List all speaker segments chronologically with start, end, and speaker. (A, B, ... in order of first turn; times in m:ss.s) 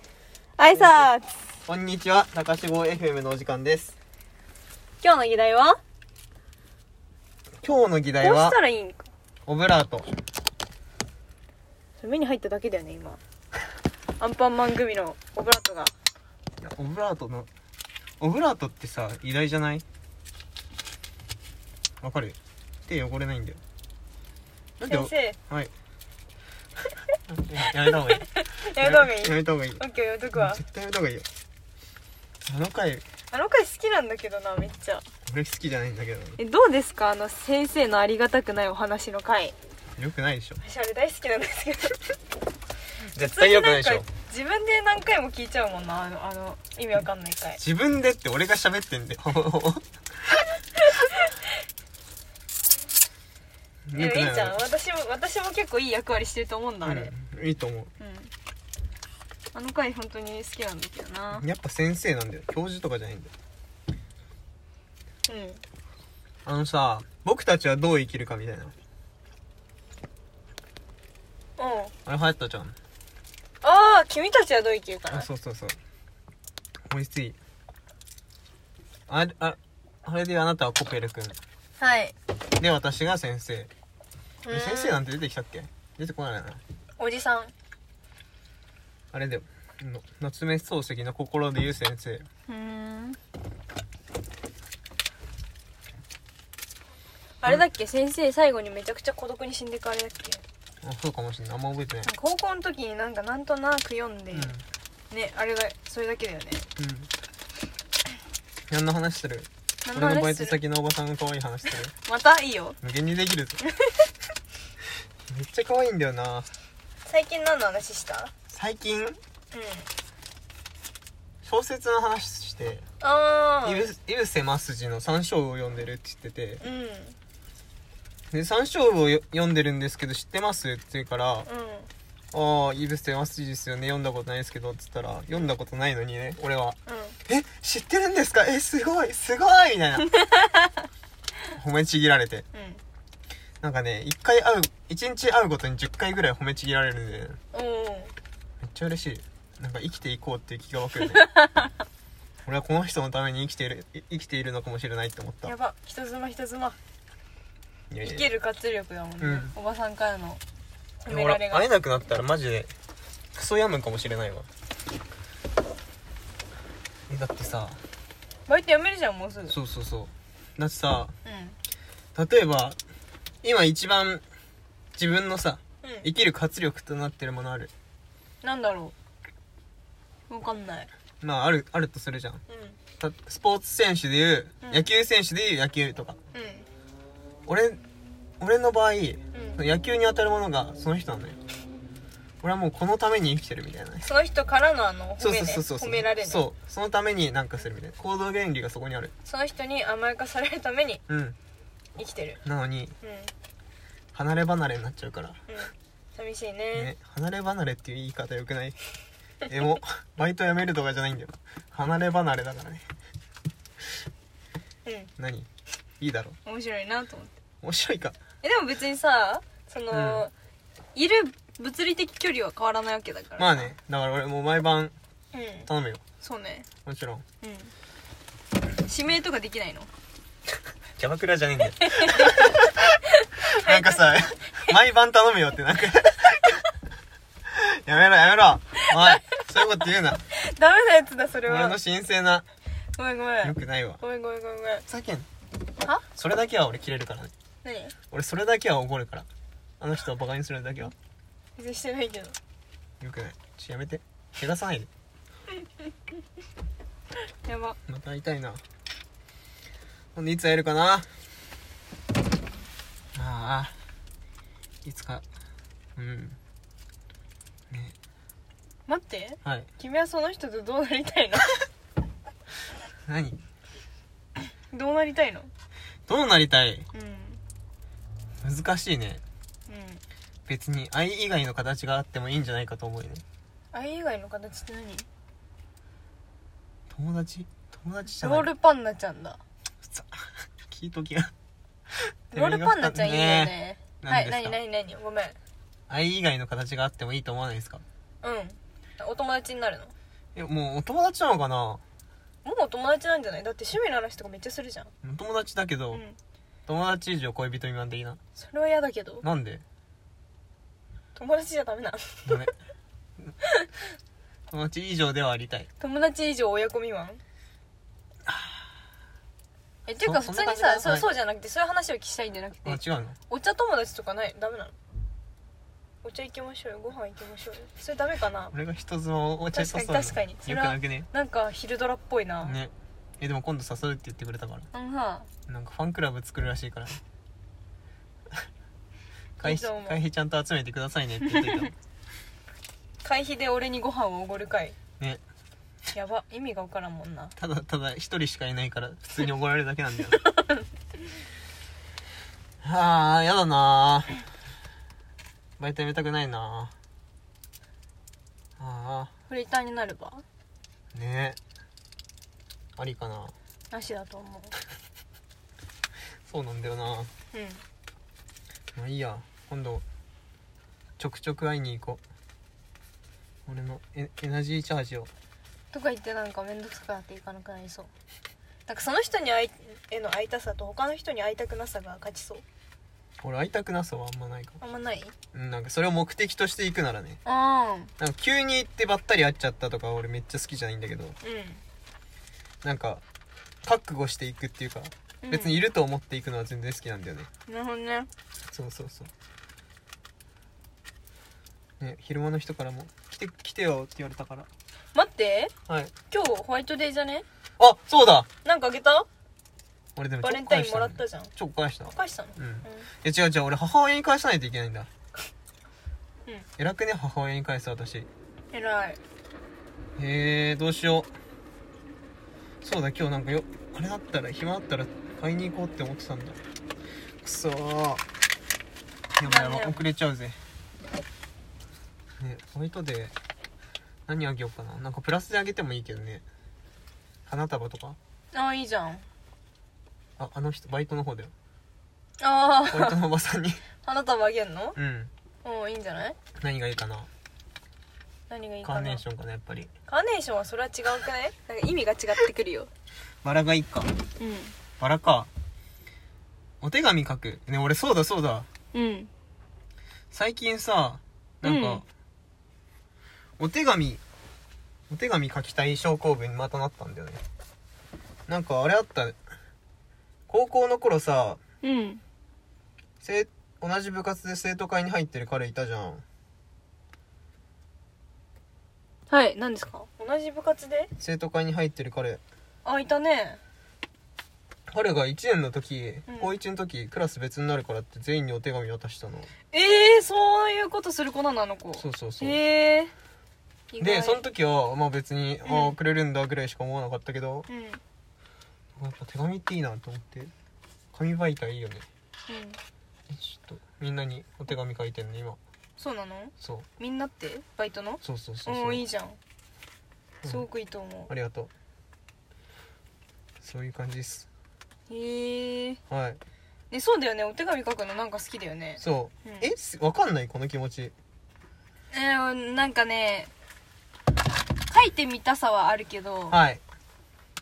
0:00.6-0:01.3 A
0:00.7-0:01.1 B
0:01.7-0:04.0 B
0:05.0-0:05.8 A
0:07.6-0:08.6 B
0:08.2-0:09.1 A
0:09.5-0:10.1 B
0:12.0-0:13.2 A
0:14.2-0:15.9 A
0:16.6-0:17.5 B
0:18.2-0:19.8 B
0:22.0-0:22.4 B
0:22.9-0:23.6 B
0:24.8-0:25.7 B
0:24.9-0:25.4 A
0:27.3-0:29.8 B
0:27.8-0:30.6 A
0:30.4-0:31.3 B
0:32.5-0:33.0 B
0:33.3-0:35.1 A
0:35.3-0:36.4 B
0:36.4-0:39.6 A
0:40.0-0:40.6 B
0:40.6-0:42.2 A
0:43.1-0:44.1 B
0:43.2-0:47.6 A
0:47.6-0:51.1 B
0:51.0-0:51.3 A
0:53.9-0:54.6 B
0:54.0-0:57.1 A
0:56.8-0:57.9 B
0:58.0-0:58.3 A
0:59.5-1:01.4 A
1:01.3-1:03.3 B
1:05.3-1:05.6 A
1:06.4-1:08.7 B
1:11.6-1:11.9 A
1:12.1-1:12.8 B
1:13.6-1:15.3 A
1:15.1-1:15.8 B
1:16.9-1:17.4 B
1:19.1-1:21.4 B
1:21.8-1:22.2 A
1:22.6-1:23.7 B
1:24.4-1:25.0 A
1:24.5-1:26.6 B
1:27.0-1:27.5 A
1:29.1-1:32.3 B
1:32.5-1:33.2 A
1:37.4-1:40.4 A
1:40.8-1:42.1 B
1:42.0-1:44.5 A
1:44.3-1:44.6 B
1:45.1-1:46.7 A
1:46.8-1:47.1 B
1:48.7-1:51.9 B
1:49.8-1:50.6 A
1:51.9-1:52.8 A
1:52.8-1:53.6 B
1:53.6-1:54.1 A
1:55.3-1:56.5 B
1:57.1-1:58.3 A
1:58.5-1:59.2 B
1:59.5-1:59.9 A
2:01.4-2:02.8 B
2:03.0-2:03.9 A
2:03.6-2:06.6 B
2:06.6-2:07.2 A
2:08.3-2:11.5 B
2:11.5-2:11.9 A
2:12.3-2:20.1 B
2:16.9-2:17.2 A
2:20.0-2:20.9 A
2:21.5-2:22.5 B
2:22.5-2:22.8 A
2:23.6-2:27.4 B
2:27.5-2:28.1 A
2:28.6-2:31.3 B
2:31.0-2:31.7 A
2:32.5-2:35.5 B
2:35.4-2:36.8 A
2:37.9-2:38.3 B
2:38.0-2:40.4 A
2:39.2-2:39.5 B
2:41.0-2:41.7 A
2:41.1-2:42.7 B
2:43.4-2:44.5 B
2:47.1-2:47.8 B
2:48.5-2:49.6 A
2:49.5-2:51.1 B
2:51.2-2:51.6 A
2:52.2-2:52.8 B
2:53.4-2:54.2 B
2:55.0-2:57.7 B
2:58.4-2:58.9 A
3:00.3-3:00.9 A
3:01.2-3:02.4 B
3:02.5-3:02.8 A
3:03.0-3:06.2 B
3:06.3-3:06.7 A
3:07.5-3:07.8 B
3:08.4-3:11.4 B
3:09.3-3:09.6 A
3:12.4-3:14.1 B
3:14.0-3:16.4 A
3:15.2-3:19.1 B
3:19.2-3:21.0 A
3:21.1-3:21.4 B
3:22.0-3:22.4 A
3:22.4-3:23.0 B
3:23.0-3:23.3 A
3:24.1-3:25.4 B
3:25.5-3:26.9 A
3:26.8-3:28.8 B
3:29.5-3:32.8 B
3:34.8-3:35.1 A
3:35.2-3:35.5 B
3:36.0-3:36.4 B
3:36.4-3:37.4 A
3:37.6-3:38.2 B
3:38.4-3:40.3 A
3:39.9-3:40.3 B
3:41.0-3:43.7 A
3:43.4-3:44.9 B
3:45.3-3:45.7 A
3:45.7-3:46.0 B
3:46.2-3:46.7 A
3:46.8-3:47.2 B
3:47.4-3:47.7 A
3:48.8-3:49.9 A
3:51.0-3:56.7 B
3:51.8-3:52.7 A
3:53.2-3:54.0 A
3:57.5-4:00.2 B
3:58.9-3:59.2 A
4:00.3-4:01.8 A
4:01.5-4:02.4 B
4:03.0-4:04.8 A
4:03.4-4:04.0 B
4:04.9-4:05.3 B
4:06.1-4:07.3 B
4:07.6-4:08.0 A
4:08.1-4:09.3 B
4:09.8-4:10.9 B
4:11.6-4:12.4 A
4:13.0-4:14.9 B
4:17.4-4:17.8 A
4:17.9-4:18.6 B
4:20.2-4:21.1 B
4:23.2-4:23.7 B
4:24.8-4:25.2 B
4:26.0-4:26.4 B
4:28.9-4:31.6 A
4:29.4-4:29.7 B
4:33.1-4:33.4 B
4:34.7-4:35.5 A
4:36.1-4:36.9 B
4:36.9-4:37.4 A
4:38.4-4:39.2 B
4:39.7-4:40.0 A
4:40.5-4:43.2 B
4:43.7-4:45.1 A
4:46.9-4:48.5 B
4:48.2-4:49.4 A
4:49.8-4:51.3 B
4:52.3-4:54.6 B
4:52.3-4:55.4 A
4:55.9-4:57.8 B
4:58.2-4:59.9 A
5:00.4-5:01.8 B
5:02.4-5:04.9 A
5:05.0-5:06.0 B
5:05.9-5:06.2 A
5:06.7-5:08.2 B
5:08.4-5:09.2 A
5:09.2-5:09.6 B
5:11.2-5:12.4 A
5:12.3-5:12.5 B
5:13.4-5:13.7 A
5:14.5-5:15.7 B
5:15.8-5:17.2 A
5:18.3-5:18.6 B
5:19.9-5:24.8 A
5:20.0-5:21.1 B
5:22.6-5:23.2 B
5:26.0-5:28.5 A
5:28.5-5:31.1 B
5:29.5-5:32.6 A
5:32.4-5:34.7 B
5:34.7-5:35.3 A
5:35.5-5:37.0 B
5:39.4-5:40.0 A
5:39.4-5:41.8 B
5:41.3-5:41.6 A
5:43.0-5:44.8 A
5:45.9-5:47.4 A
5:47.4-5:50.2 B
5:50.4-5:50.6 A
5:52.6-5:54.2 B
5:55.6-5:56.7 B
5:58.6-5:59.1 B
5:59.3-6:00.2 A
6:00.9-6:01.4 B
6:02.8-6:03.3 B
6:03.7-6:04.5 A
6:06.3-6:07.1 B
6:07.3-6:07.6 A
6:08.8-6:09.8 B
6:11.0-6:12.0 B
6:13.5-6:15.1 B
6:15.7-6:17.9 A
6:18.7-6:22.4 A
6:23.2-6:24.6 B
6:24.6-6:25.2 A
6:25.3-6:27.2 B
6:27.2-6:27.9 A
6:28.0-6:31.2 B
6:31.2-6:31.6 A
6:32.6-6:33.0 B
6:33.6-6:37.3 B
6:35.2-6:35.6 A
6:37.5-6:38.1 A
6:38.5-6:39.1 B
6:41.8-6:44.5 B
6:44.9-6:45.5 A
6:46.1-6:47.3 A
6:47.6-6:48.3 B
6:48.4-6:49.1 A
6:50.0-6:54.9 B
6:50.2-6:51.3 A
6:51.9-6:52.9 A
6:56.6-6:58.1 B
6:58.5-6:59.0 A
7:00.0-7:01.1 B
7:02.6-7:06.4 B
7:07.2-7:08.0 B
7:09.2-7:10.4 B
7:09.2-7:09.8 A
7:12.2-7:13.1 B
7:14.1-7:16.2 B
7:17.3-7:18.0 B
7:18.3-7:19.0 A
7:20.2-7:21.3 B
7:22.2-7:23.0 A
7:22.7-7:23.6 B
7:23.8-7:24.8 A
7:24.8-7:25.1 B
7:25.4-7:26.2 A
7:26.4-7:27.1 B
7:28.3-7:29.0 A
7:28.6-7:29.7 B
7:29.9-7:32.7 A
7:33.2-7:33.9 B
7:34.2-7:34.6 A
7:34.8-7:35.3 B
7:36.6-7:38.5 B
7:38.7-7:39.1 A
7:40.1-7:41.9 B
7:41.4-7:41.8 A
7:43.4-7:44.0 B
7:44.9-7:47.2 B
7:48.3-7:49.2 B
7:50.3-7:51.4 B
7:51.6-7:52.0 A
7:53.0-7:56.0 B
7:59.1-8:00.9 A
8:01.0-8:02.2 B
8:02.6-8:03.4 A
8:04.7-8:09.3 B
8:06.1-8:06.3 A
8:09.5-8:12.9 A
8:11.8-8:12.4 B
8:13.7-8:14.2 A
8:13.8-8:17.5 B
8:15.4-8:15.8 A
8:17.5-8:17.8 A
8:18.8-8:20.3 B
8:20.9-8:21.9 B
8:22.3-8:22.6 A
8:23.1-8:25.4 B
8:25.8-8:29.2 A
8:26.4-8:26.7 B
8:28.0-8:28.8 B
8:30.2-8:31.1 A
8:31.1-8:31.5 B
8:33.4-8:34.3 B
8:34.9-8:35.8 A
8:35.9-8:36.2 B
8:36.7-8:39.5 A
8:38.8-8:40.9 B
8:41.9-8:43.3 A
8:44.7-8:46.4 A
8:46.3-8:46.6 B